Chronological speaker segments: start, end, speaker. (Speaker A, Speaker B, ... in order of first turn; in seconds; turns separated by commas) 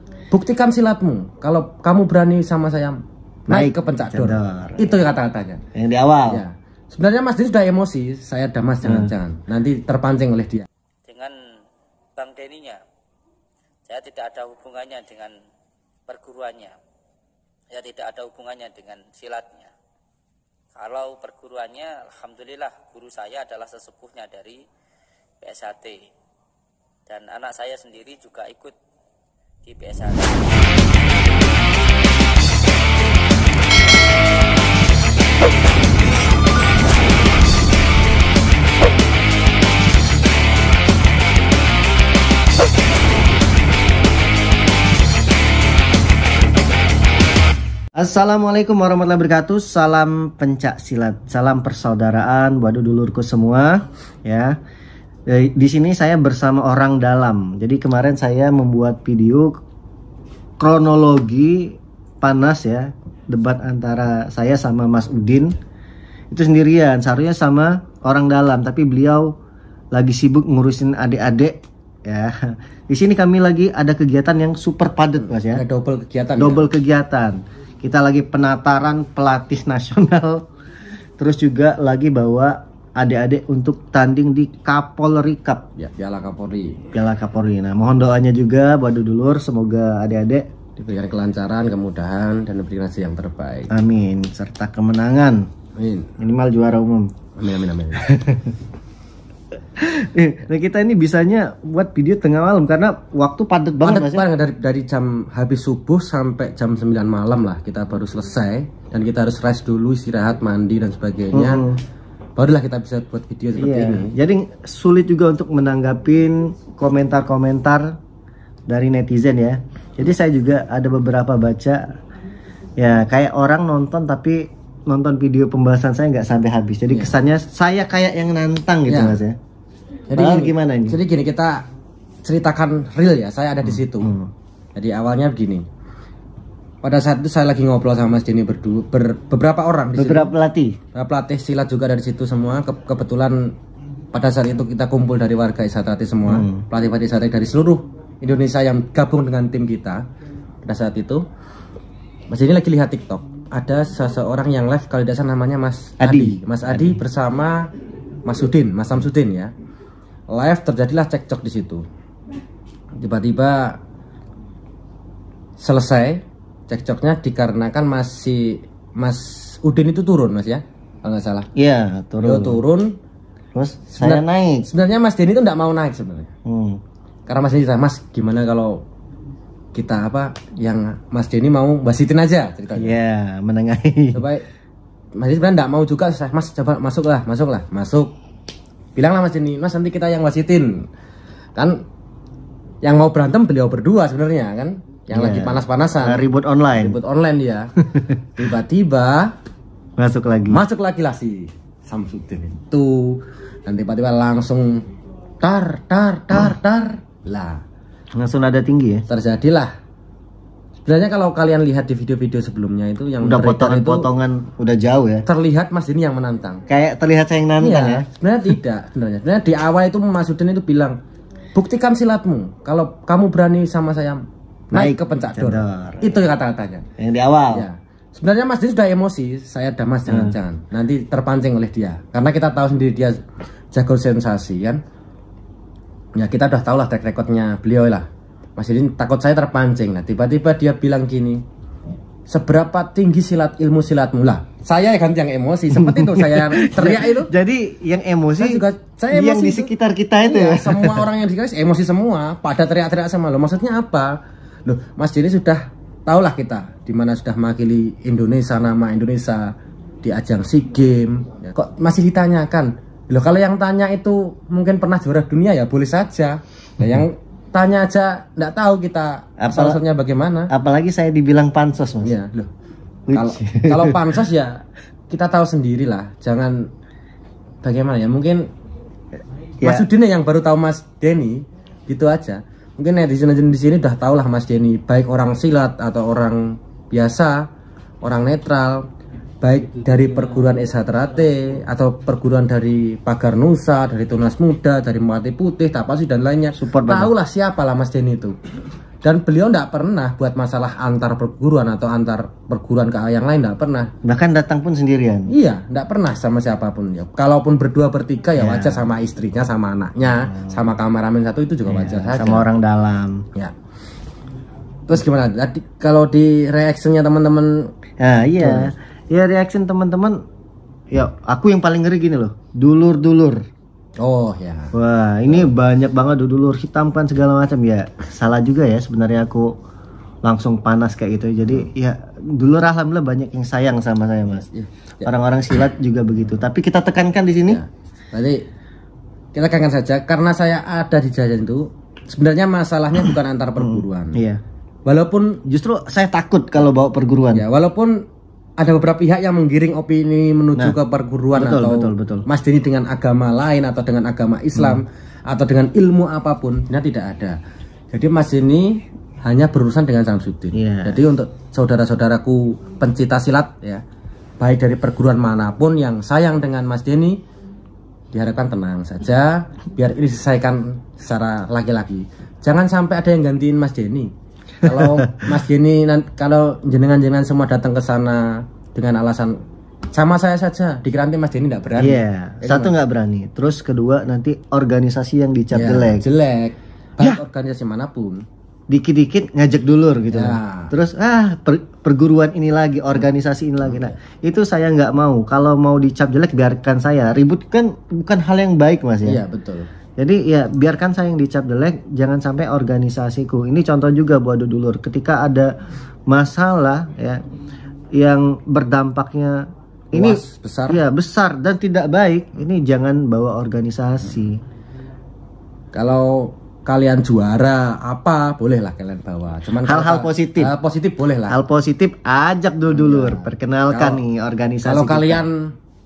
Speaker A: 0.3-5.6, Speaker B: 3.5-5.0, Speaker B: 5.8-6.4, Speaker A: 6.3-10.7, Speaker B: 8.8-9.1, Speaker C: 11.1-11.4, Speaker C: 12.2-12.8, Speaker C: 13.9-15.3, Speaker C: 16.1-16.8, Speaker C: 17.7-19.7, Speaker C: 20.8-24.6, Speaker C: 25.4-26.1, Speaker C: 27.1-28.8, Speaker C: 29.6-30.7, Speaker B: 48.0-54.6, Speaker B: 55.3-59.5, Speaker B: 60.6-65.5, Speaker B: 66.3-69.3, Speaker B: 69.9-75.6, Speaker A: 75.2-76.7, Speaker B: 76.4-80.4, Speaker B: 81.2-85.7, Speaker A: 85.8-86.9, Speaker B: 86.9-90.5, Speaker A: 90.8-93.7, Speaker B: 93.7-95.4, Speaker A: 95.8-96.1, Speaker B: 96.2-97.1, Speaker A: 97.4-98.1, Speaker B: 98.1-98.4, Speaker B: 99.8-104.2, Speaker A: 103.8-111.6, Speaker B: 111.3-111.8, Speaker A: 112.4-114.2, Speaker B: 113.6-118.0, Speaker B: 118.7-121.8, Speaker B: 122.8-129.4, Speaker A: 128.9-129.2, Speaker A: 130.1-131.6, Speaker B: 130.2-131.0, Speaker A: 132.2-134.1, Speaker B: 133.8-134.3, Speaker A: 134.8-135.7, Speaker A: 136.8-140.3, Speaker B: 140.0-140.8, Speaker A: 140.9-143.5, Speaker A: 144.1-150.0, Speaker B: 146.3-146.6, Speaker A: 150.7-151.2, Speaker A: 152.3-157.7, Speaker B: 156.0-157.0, Speaker A: 158.2-159.5, Speaker A: 160.3-161.8, Speaker A: 163.0-163.8, Speaker A: 165.6-171.5, Speaker B: 171.6-172.6, Speaker A: 172.2-172.9, Speaker B: 173.6-174.7, Speaker A: 173.9-176.3, Speaker B: 176.5-176.8, Speaker A: 177.3-178.8, Speaker A: 179.7-183.0, Speaker B: 182.8-184.2, Speaker A: 184.1-184.4, Speaker A: 185.2-188.1, Speaker A: 189.0-190.8, Speaker A: 191.6-191.8, Speaker A: 192.8-197.7, Speaker B: 195.1-197.0, Speaker A: 198.4-199.3, Speaker B: 200.0-200.6, Speaker A: 200.5-204.8, Speaker A: 205.4-207.6, Speaker B: 208.2-209.1, Speaker A: 209.1-209.7, Speaker A: 210.9-214.1, Speaker B: 213.2-215.2, Speaker A: 215.3-216.6, Speaker B: 216.7-218.1, Speaker A: 217.6-221.0, Speaker A: 221.6-226.9, Speaker B: 224.7-226.2, Speaker B: 227.0-227.7, Speaker A: 227.5-233.2, Speaker B: 230.1-230.4, Speaker A: 233.7-234.8, Speaker A: 236.2-238.1, Speaker A: 238.6-241.4, Speaker A: 242.3-247.3, Speaker B: 245.8-251.1, Speaker A: 248.4-249.7, Speaker A: 250.2-254.1, Speaker A: 254.7-259.5, Speaker A: 260.0-270.5, Speaker B: 269.4-269.8, Speaker B: 270.5-272.1, Speaker A: 272.0-272.5, Speaker B: 273.1-274.1, Speaker A: 273.1-276.7, Speaker A: 277.6-278.4, Speaker B: 279.6-279.9, Speaker A: 279.6-287.4, Speaker A: 288.0-288.9, Speaker A: 289.4-298.4, Speaker B: 296.6-297.1, Speaker A: 299.0-303.9, Speaker B: 304.0-305.3, Speaker A: 305.3-312.5, Speaker B: 308.4-308.9, Speaker B: 311.7-313.2, Speaker A: 314.9-317.7, Speaker B: 318.0-320.2, Speaker A: 318.4-318.7, Speaker B: 320.9-323.4, Speaker A: 324.0-324.7, Speaker B: 324.7-329.5, Speaker B: 330.2-334.5, Speaker A: 334.4-335.1, Speaker B: 335.0-337.6, Speaker A: 337.5-338.4, Speaker A: 339.3-344.2, Speaker B: 343.6-344.4, Speaker A: 344.9-345.4, Speaker B: 345.5-347.4, Speaker A: 347.4-347.9, Speaker A: 348.6-357.4, Speaker B: 351.4-352.2, Speaker A: 357.9-363.8, Speaker B: 360.5-361.0, Speaker A: 364.4-367.2, Speaker A: 368.1-374.1, Speaker A: 374.6-379.4, Speaker A: 379.9-382.7, Speaker B: 381.8-386.1, Speaker A: 385.5-388.2, Speaker B: 388.7-399.2, Speaker A: 390.1-390.7, Speaker A: 393.7-393.9, Speaker A: 399.1-399.7, Speaker B: 400.0-405.5, Speaker B: 406.1-407.2, Speaker B: 407.9-409.4, Speaker A: 409.9-410.8, Speaker B: 409.9-414.4, Speaker A: 415.7-421.4, Speaker B: 419.6-420.5, Speaker B: 421.3-425.2, Speaker A: 422.7-424.0, Speaker A: 424.6-425.5